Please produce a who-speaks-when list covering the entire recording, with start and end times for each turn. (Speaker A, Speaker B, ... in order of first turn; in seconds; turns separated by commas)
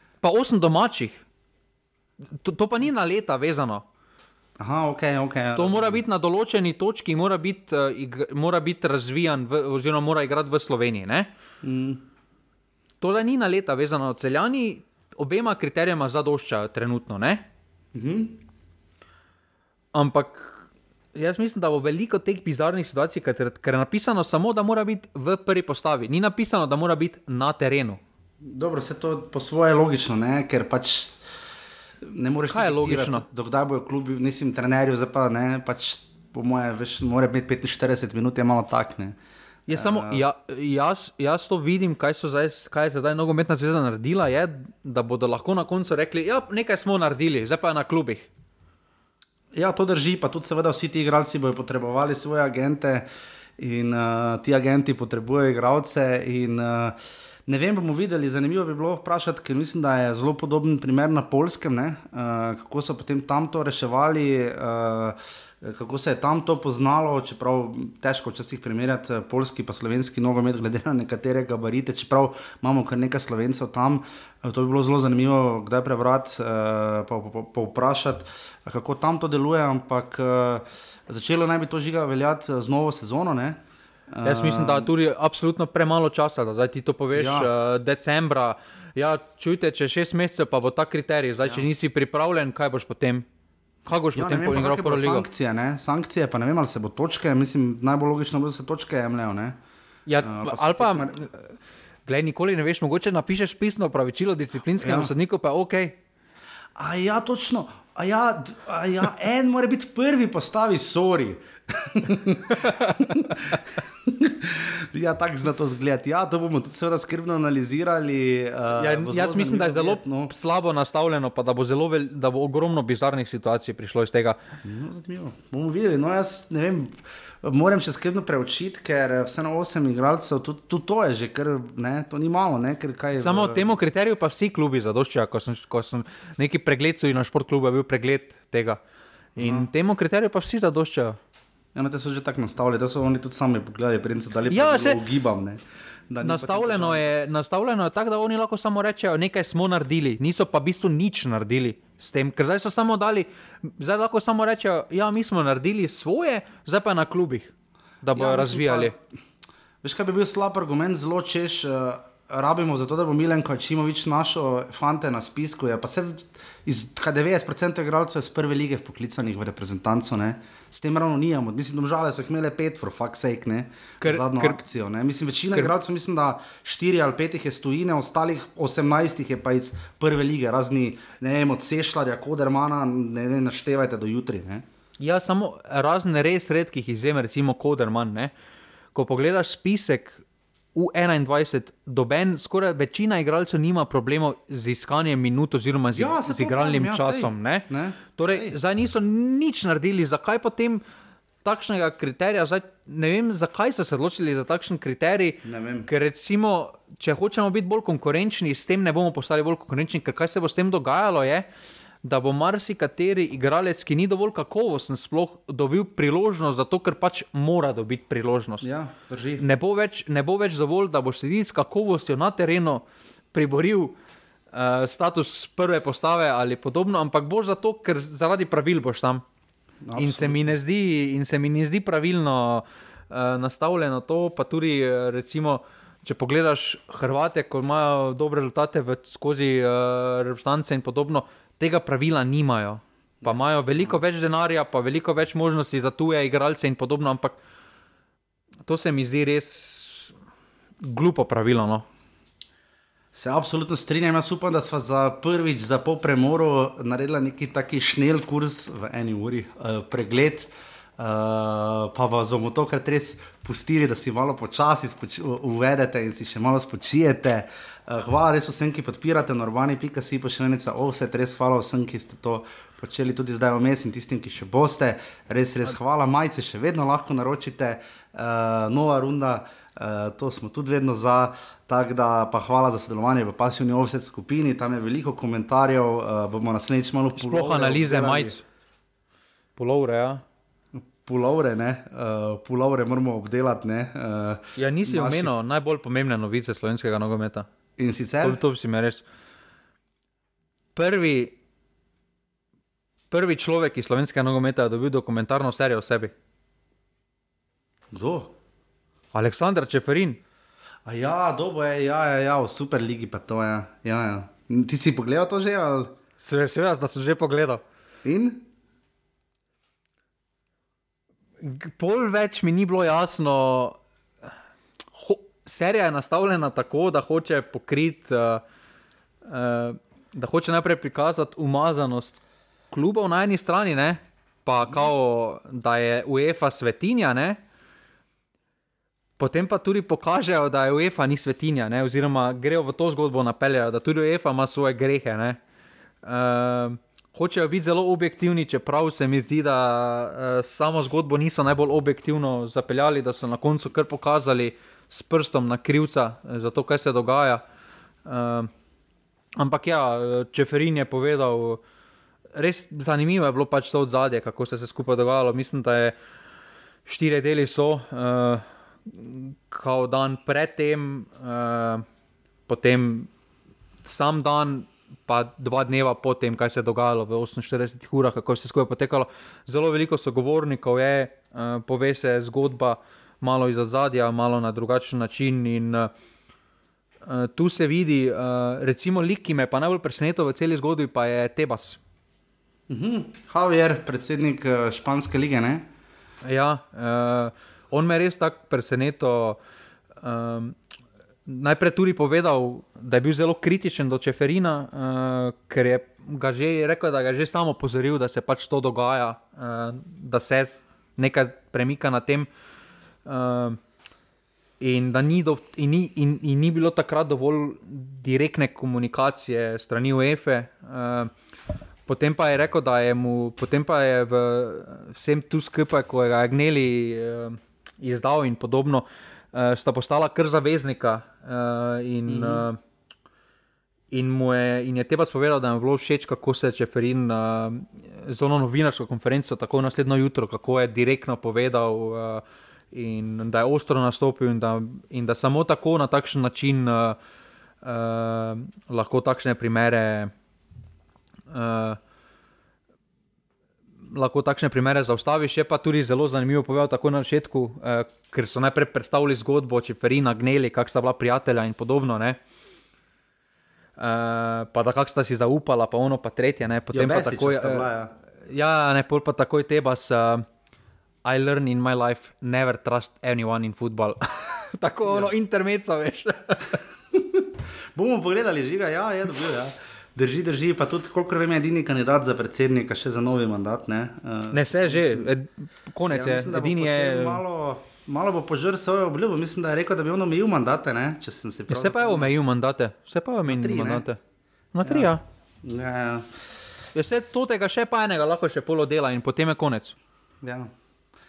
Speaker A: 0.2-1.2, Speaker A: 2.4-3.8, Speaker B: 4.6-6.0, Speaker A: 5.5-11.3, Speaker B: 11.6-12.0, Speaker A: 13.0-17.4, Speaker B: 17.9-18.4, Speaker A: 19.9-28.0, Speaker B: 28.4-31.2, Speaker B: 32.0-39.2, Speaker A: 32.5-33.2, Speaker A: 39.7-48.3, Speaker B: 39.7-40.2, Speaker B: 49.5-53.0, Speaker B: 53.6-57.0, Speaker B: 57.5-84.9, Speaker A: 84.2-93.2, Speaker B: 87.1-87.5, Speaker A: 93.9-95.2, Speaker B: 94.1-99.6, Speaker A: 100.1-101.5, Speaker B: 100.2-101.2, Speaker A: 102.0-106.0, Speaker B: 104.8-105.1, Speaker B: 106.8-120.3, Speaker A: 112.5-113.5, Speaker A: 118.7-124.4, Speaker B: 124.6-133.7, Speaker A: 133.2-138.8, Speaker B: 139.4-139.7, Speaker A: 139.4-141.2, Speaker B: 141.7-147.1, Speaker A: 144.5-145.0, Speaker A: 146.2-158.9, Speaker B: 158.1-159.0, Speaker B: 159.8-184.6, Speaker A: 174.0-174.6, Speaker A: 185.0-188.3, Speaker A: 188.9-190.2, Speaker A: 190.7-200.8, Speaker B: 195.9-198.6, Speaker A: 201.4-211.5, Speaker B: 205.4-205.9, Speaker A: 212.0-218.7, Speaker B: 218.6-219.4, Speaker A: 219.4-223.9, Speaker A: 224.5-229.2, Speaker B: 229.8-230.5, Speaker A: 229.9-247.4, Speaker B: 243.2-244.0, Speaker A: 248.7-250.1, Speaker A: 250.8-251.8, Speaker B: 253.1-288.4, Speaker A: 287.1-288.4, Speaker A: 289.6-290.2, Speaker B: 290.7-295.3, Speaker A: 294.6-297.5, Speaker B: 297.8-298.4, Speaker A: 298.2-299.0, Speaker A: 300.7-301.3, Speaker A: 303.1-306.1, Speaker B: 307.9-308.3, Speaker A: 309.1-310.2, Speaker B: 310.9-315.9, Speaker A: 316.2-317.6, Speaker B: 318.0-318.4, Speaker A: 321.4-323.8, Speaker A: 324.9-328.4, Speaker A: 329.2-332.2, Speaker A: 332.7-337.4, Speaker A: 339.2-345.4, Speaker A: 346.0-357.4, Speaker A: 358.1-358.5, Speaker A: 359.4-361.6, Speaker A: 362.4-365.9, Speaker A: 366.9-371.8, Speaker A: 372.5-373.1, Speaker A: 373.8-385.9, Speaker A: 387.1-391.8, Speaker B: 392.7-395.6, Speaker A: 396.2-399.4, Speaker A: 400.0-400.6, Speaker A: 401.2-412.3, Speaker A: 413.1-413.6, Speaker A: 414.6-421.1, Speaker A: 421.9-432.6, Speaker B: 432.1-432.5, Speaker A: 433.9-447.0, Speaker A: 447.6-450.1, Speaker A: 451.3-451.8, Speaker A: 453.9-462.2, Speaker A: 463.8-467.7, Speaker B: 466.7-467.9, Speaker A: 468.3-470.2, Speaker A: 471.1-476.6, Speaker B: 474.9-475.1, Speaker B: 476.9-485.1, Speaker A: 484.3-487.2, Speaker B: 485.9-492.1, Speaker A: 491.5-494.0, Speaker B: 493.2-493.9, Speaker A: 494.5-495.0, Speaker B: 494.6-494.9, Speaker B: 495.4-496.1, Speaker A: 496.7-499.8, Speaker B: 500.2-500.5